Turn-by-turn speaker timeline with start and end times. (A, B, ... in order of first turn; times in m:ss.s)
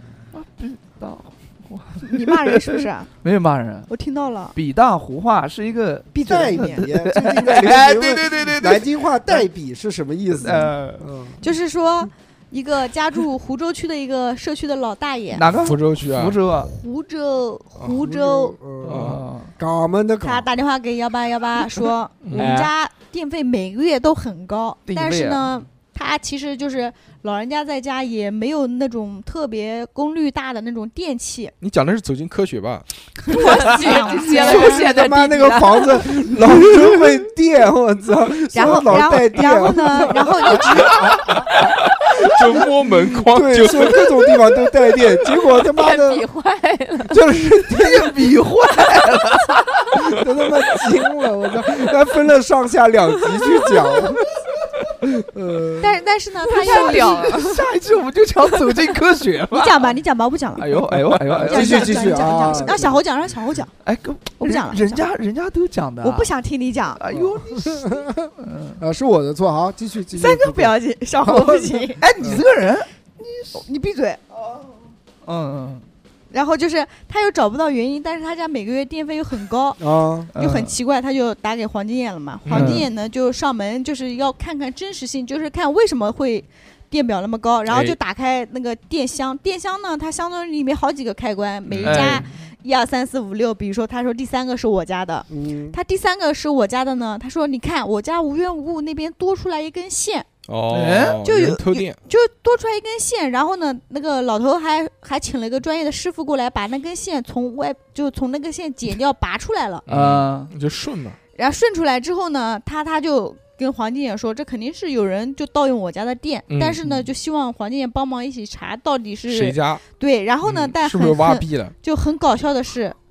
0:00.3-0:03.9 A
0:02.0-0:03.1 B
0:03.9-0:04.5 B
0:04.5-0:09.4 A
0:06.1-0:06.9 B
0:06.3-0:11.4 C
0:10.4-0:11.1 A
0:11.4-0:15.4 B
0:15.3-0:16.7 A
0:15.5-0:16.4 D
0:16.6-0:18.6 B
0:17.8-0:20.5 C
0:18.8-0:19.5 A
0:18.9-0:19.2 D
0:20.2-0:31.5 B
0:22.2-0:22.5 D
0:22.3-0:22.7 A
0:24.8-0:25.4 A
0:31.6-0:32.9 D
0:33.2-0:35.0 B
0:33.3-0:36.1 E
0:34.2-0:41.6 C
0:38.5-0:41.2 B
0:38.7-0:39.2 D
0:41.0-0:41.3 D
0:42.2-0:44.2 D
0:42.2-0:46.2 C
0:45.7-0:47.3 E
0:47.1-0:48.3 C
0:47.7-0:49.9 A
0:49.9-0:54.3 C
0:54.9-0:56.0 C
0:55.8-0:57.4 B
0:56.5-0:57.6 E
0:56.6-1:00.0 A
0:59.5-1:03.7 B
1:00.6-1:02.8 A
1:01.3-1:03.0 C
1:03.8-1:06.3 A
1:04.4-1:05.0 B
1:06.0-1:07.0 B
1:07.0-1:08.8 A
1:07.1-1:12.4 C
1:10.1-1:12.0 B
1:12.0-1:13.2 A
1:13.4-1:14.2 B
1:15.2-1:15.9 A
1:16.3-1:19.8 B
1:19.8-1:20.3 C
1:20.3-1:20.7 A
1:20.3-1:40.2 B
1:22.4-1:22.9 D
1:22.5-1:22.9 A
1:27.7-1:28.0 D
1:31.7-1:32.3 D
1:31.8-1:32.3 A
1:35.3-1:35.8 C
1:40.5-1:42.0 D
1:40.7-1:41.2 A
1:41.2-1:49.8 B
1:49.9-1:51.2 D
1:49.9-1:50.5 A
1:51.3-2:03.0 B
1:56.5-1:56.8 D
1:59.3-1:59.8 D
2:00.4-2:01.7 D